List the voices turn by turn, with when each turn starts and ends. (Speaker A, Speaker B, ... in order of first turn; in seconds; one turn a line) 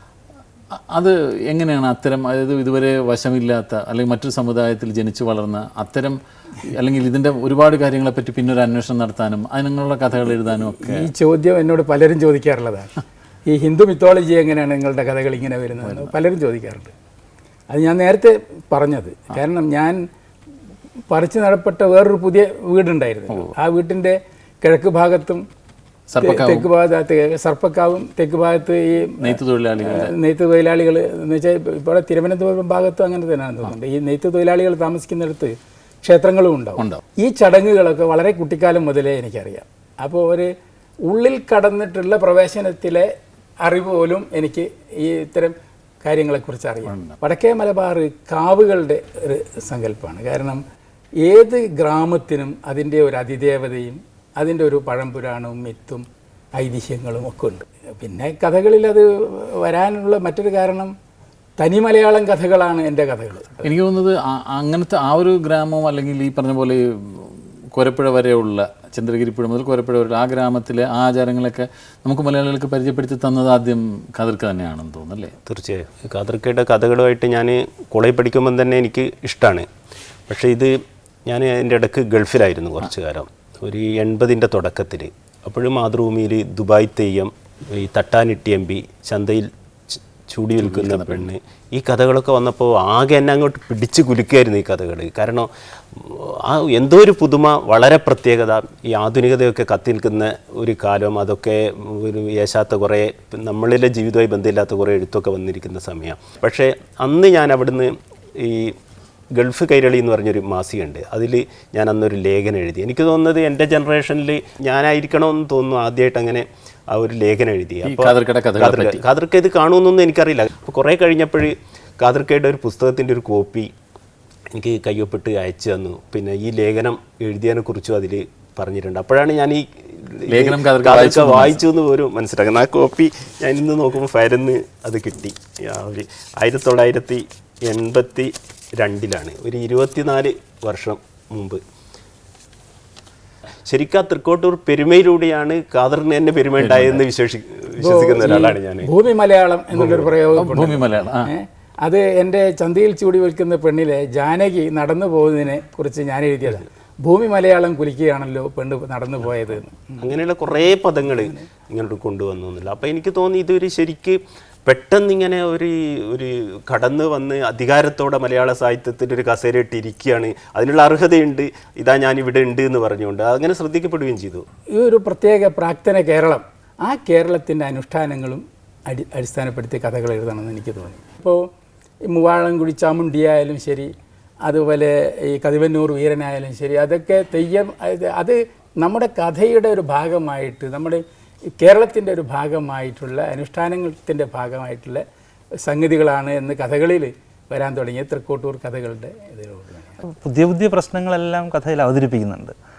Speaker A: 0.7-11.1
Speaker B: 10.7-16.9
Speaker B: 17.7-20.0
Speaker B: 21.1-25.4
Speaker A: 26.1-26.7
Speaker B: 26.2-40.5
Speaker A: 29.2-30.1
Speaker B: 41.1-43.1
Speaker B: 43.6-50.6
Speaker A: 46.9-47.2
Speaker B: 51.2-60.9
Speaker B: 61.6-63.7
Speaker A: 63.6-75.3
Speaker C: 75.5-79.7
Speaker C: 80.3-80.7
Speaker C: 81.3-108.8
Speaker A: 90.6-91.3
Speaker C: 109.3-123.7
Speaker A: 117.8-119.0
Speaker C: 124.5-141.6
Speaker A: 130.3-131.6
Speaker C: 143.7-148.9
Speaker A: 146.6-147.0
Speaker B: 147.8-160.1
Speaker C: 149.7-150.2
Speaker A: 150.4-151.3
Speaker C: 160.0-174.5
Speaker B: 174.7-181.5
Speaker B: 182.1-183.9
Speaker B: 184.4-191.0
Speaker B: 191.6-195.0
Speaker B: 195.7-200.0
Speaker D: 200.0-202.5